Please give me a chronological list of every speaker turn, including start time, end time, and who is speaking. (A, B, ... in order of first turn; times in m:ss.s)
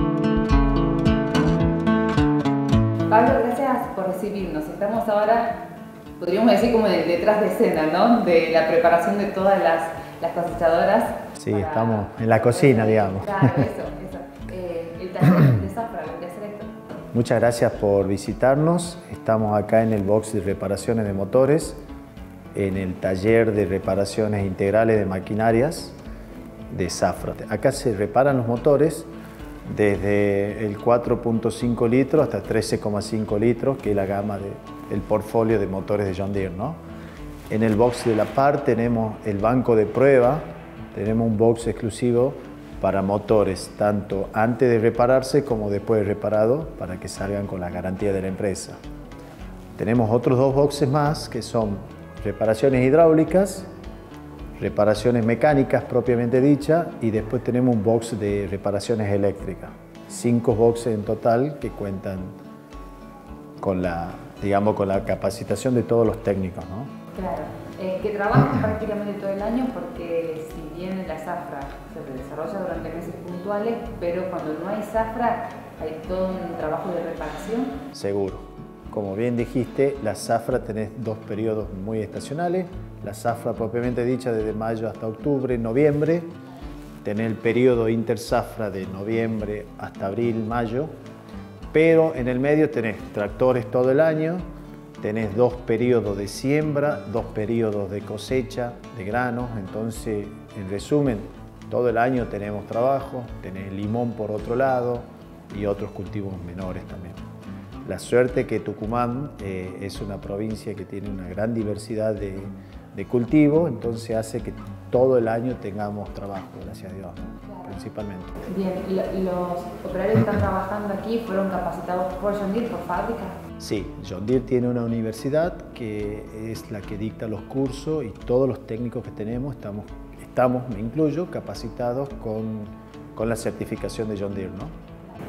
0:03.1-0:05.6 A
0:06.2-0:16.7 A
0:11.4-0:13.6 B
0:17.1-0:21.8 B
0:22.5-0:26.0 B
0:26.7-0:29.1 B
0:29.6-0:36.8 B
0:37.5-0:48.8 B
0:49.8-0:53.7 B
0:54.6-1:02.3 B
1:03.6-1:06.9 B
1:07.1-1:17.8 A
1:17.9-1:26.3 B
1:27.0-1:30.9 B
1:31.7-1:34.4 B
1:35.0-1:47.2 B
1:47.8-1:58.4 B
1:58.4-2:03.4 A
2:03.6-2:14.7 B